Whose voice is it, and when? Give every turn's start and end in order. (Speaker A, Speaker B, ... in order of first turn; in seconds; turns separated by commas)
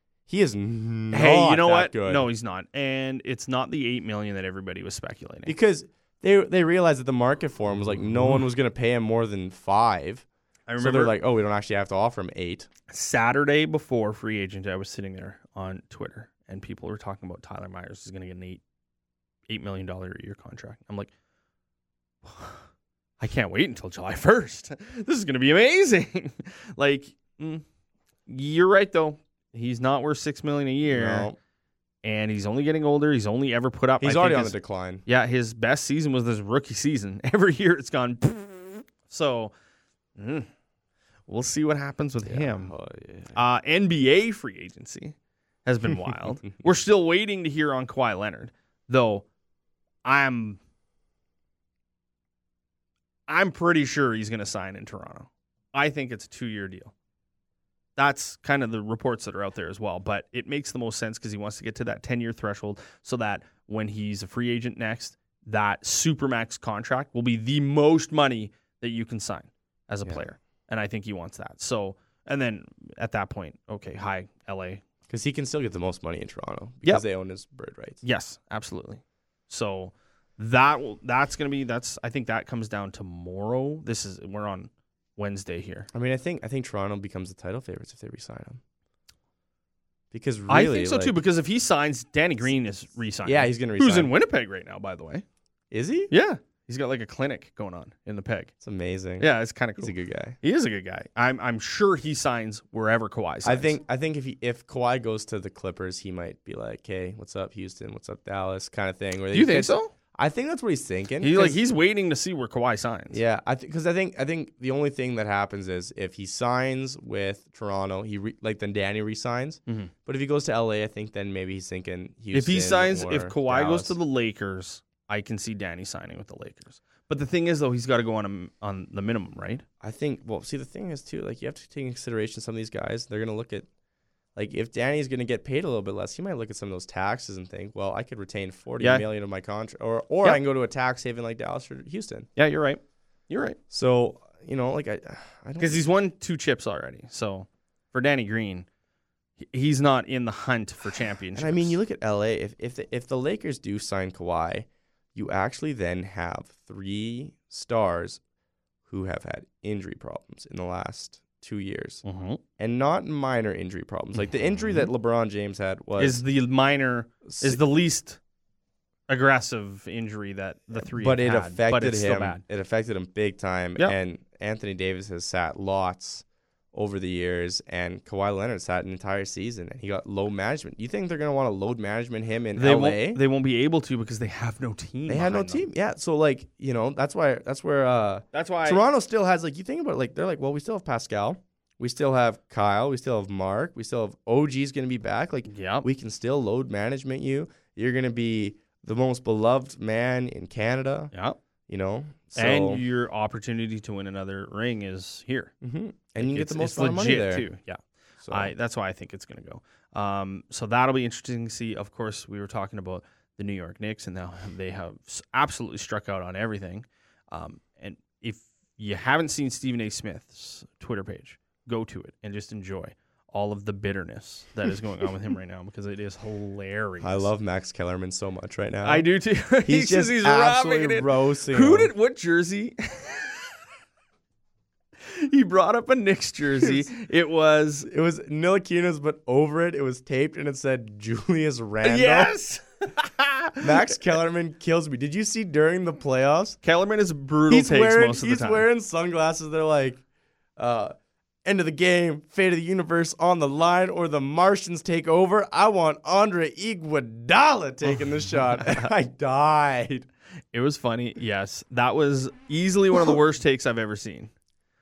Speaker A: 0.3-2.3, Speaker B: 1.1-5.6, Speaker A: 5.5-10.2, Speaker B: 8.0-8.4, Speaker B: 10.7-11.2, Speaker A: 10.8-12.7, Speaker B: 12.9-18.6, Speaker B: 19.5-21.1, Speaker B: 22.2-22.6, Speaker B: 23.2-27.6, Speaker B: 28.3-31.3, Speaker A: 30.9-31.4, Speaker B: 32.0-39.5, Speaker A: 34.0-35.0, Speaker B: 40.2-40.5, Speaker B: 41.3-42.7, Speaker A: 42.2-43.4, Speaker B: 43.4-49.2, Speaker A: 45.9-46.3, Speaker B: 50.0-50.6, Speaker B: 53.3-56.9, Speaker B: 58.0-74.8, Speaker A: 75.1-78.0, Speaker B: 78.0-85.9, Speaker A: 85.9-88.6, Speaker A: 90.1-91.2, Speaker B: 90.5-95.2, Speaker A: 93.2-94.1, Speaker A: 95.7-96.1, Speaker B: 96.1-98.5, Speaker A: 98.6-100.4, Speaker B: 99.2-103.8, Speaker A: 103.4-111.6, Speaker B: 109.3-109.9, Speaker B: 111.2-113.2, Speaker A: 113.1-124.0, Speaker B: 122.3-129.6, Speaker A: 129.8-133.7, Speaker A: 134.3-142.3, Speaker B: 138.8-139.1, Speaker B: 142.4-143.6, Speaker A: 143.7-145.8, Speaker B: 145.6-148.7, Speaker B: 149.4-151.8, Speaker A: 151.3-158.2, Speaker A: 158.9-162.0, Speaker B: 162.1-162.4, Speaker A: 162.6-166.2, Speaker B: 164.5-164.9, Speaker B: 166.0-168.2, Speaker A: 167.2-167.6, Speaker B: 169.1-172.4, Speaker A: 170.8-183.2, Speaker B: 182.6-185.7, Speaker A: 185.1-201.1, Speaker B: 188.3-188.8, Speaker B: 195.5-195.9, Speaker B: 201.1-201.4, Speaker A: 201.7-202.8, Speaker B: 202.3-205.5, Speaker A: 205.6-207.5, Speaker B: 206.2-227.3, Speaker A: 208.2-208.5, Speaker A: 227.0-229.1, Speaker B: 228.8-233.3, Speaker A: 229.6-231.9, Speaker B: 235.1-237.9, Speaker A: 236.6-236.9, Speaker A: 237.8-242.3, Speaker B: 241.8-243.9, Speaker A: 243.6-246.6, Speaker B: 246.6-248.7, Speaker A: 247.5-250.0, Speaker A: 250.6-250.9, Speaker A: 251.4-260.1, Speaker B: 257.9-258.9, Speaker B: 260.5-264.3, Speaker A: 262.9-263.2